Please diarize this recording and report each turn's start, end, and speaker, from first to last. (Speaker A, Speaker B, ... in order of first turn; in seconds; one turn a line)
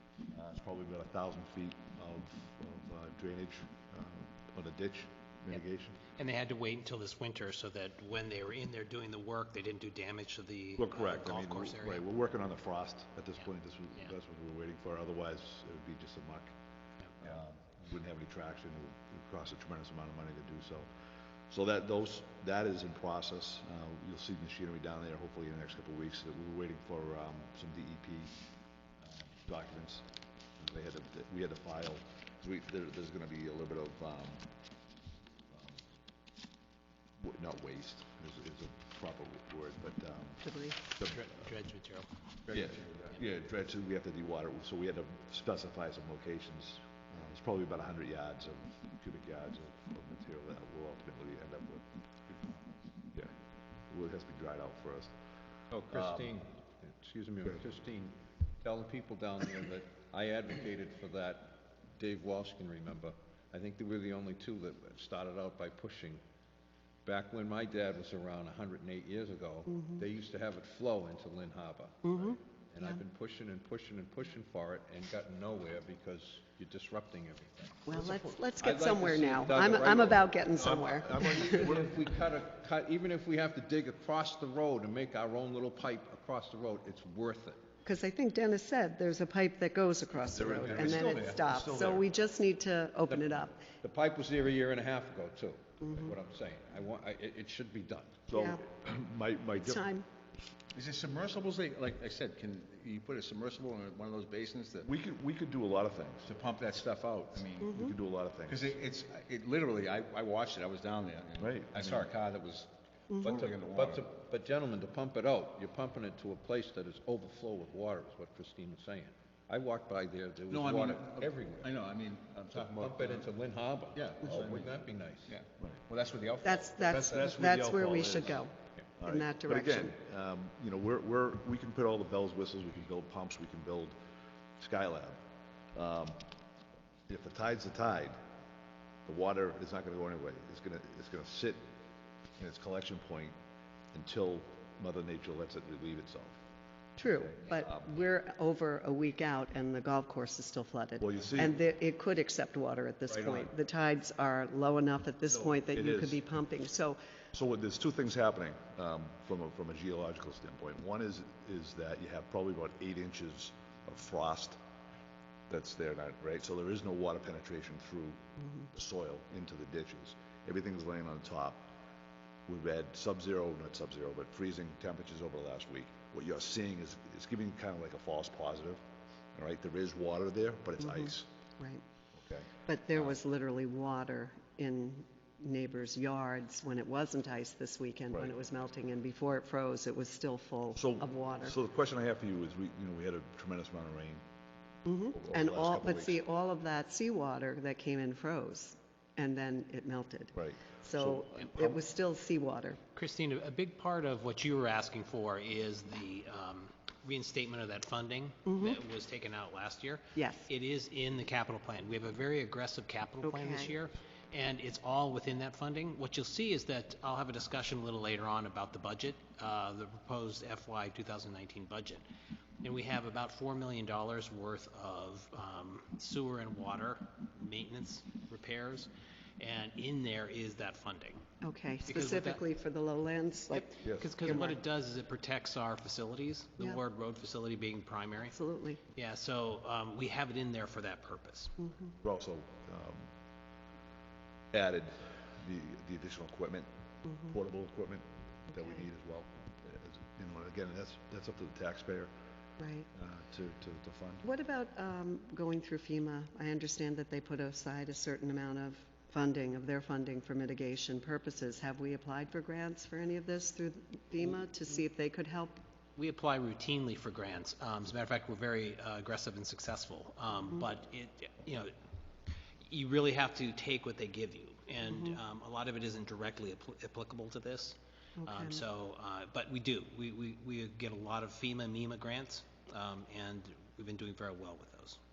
Speaker A: 0.3-6.0
Speaker B: 6.1-12.1
Speaker A: 10.8-16.6
Speaker A: 17.2-20.9
Speaker A: 21.5-28.4
Speaker A: 29.0-34.5
Speaker A: 35.5-35.8
Speaker A: 37.2-41.4
Speaker C: 40.4-40.8
Speaker B: 41.0-42.1
Speaker D: 42.5-43.1
Speaker A: 42.5-52.0
Speaker A: 53.9-55.1
Speaker E: 55.7-66.2
Speaker A: 55.9-56.3
Speaker E: 67.0-87.6
Speaker C: 69.7-70.0
Speaker C: 72.0-73.0
Speaker C: 77.9-81.8
Speaker A: 80.5-81.9
Speaker C: 87.8-93.5
Speaker A: 90.3-92.1
Speaker D: 90.4-91.4
Speaker E: 93.1-98.2
Speaker C: 95.8-96.1
Speaker A: 98.3-99.9
Speaker C: 98.3-98.6
Speaker C: 99.6-100.0
Speaker D: 100.7-104.9
Speaker A: 104.8-106.3
Speaker D: 106.2-107.8
Speaker C: 107.6-108.0
Speaker A: 107.7-108.7
Speaker D: 108.5-112.7
Speaker A: 111.4-112.1
Speaker D: 113.2-114.1
Speaker E: 113.2-121.8
Speaker D: 120.5-123.3
Speaker E: 122.5-125.3
Speaker D: 123.9-127.5
Speaker C: 126.4-128.5
Speaker A: 126.8-128.4
Speaker A: 129.0-134.0
Speaker C: 129.0-129.9
Speaker A: 134.6-135.2
Speaker A: 135.7-136.2
Speaker A: 137.1-138.2
Speaker A: 139.1-141.7
Speaker A: 142.4-143.3
Speaker A: 143.9-146.4
Speaker C: 147.0-157.0
Speaker A: 147.0-147.9
Speaker A: 151.0-151.6
Speaker A: 155.7-156.4
Speaker A: 157.3-164.6
Speaker A: 165.5-171.7
Speaker A: 172.5-178.8
Speaker A: 179.3-181.3
Speaker C: 180.8-181.8
Speaker A: 182.1-182.5
Speaker C: 182.7-191.6
Speaker A: 190.8-194.2
Speaker C: 194.8-202.8
Speaker A: 195.1-196.2
Speaker A: 200.3-201.8
Speaker B: 202.9-222.0
Speaker C: 208.5-208.8
Speaker C: 210.2-210.5
Speaker C: 213.2-213.7
Speaker B: 222.6-231.2
Speaker C: 231.4-234.6
Speaker B: 231.9-232.4
Speaker B: 233.5-238.4
Speaker A: 233.8-234.4
Speaker C: 238.3-238.8
Speaker B: 238.9-241.5
Speaker C: 241.6-241.9
Speaker A: 242.0-243.1
Speaker A: 244.5-246.7
Speaker A: 247.2-252.1
Speaker C: 252.6-252.9
Speaker A: 252.9-254.3
Speaker C: 254.2-265.6
Speaker B: 265.9-271.7
Speaker B: 272.6-285.0
Speaker C: 274.8-275.2
Speaker C: 278.2-278.6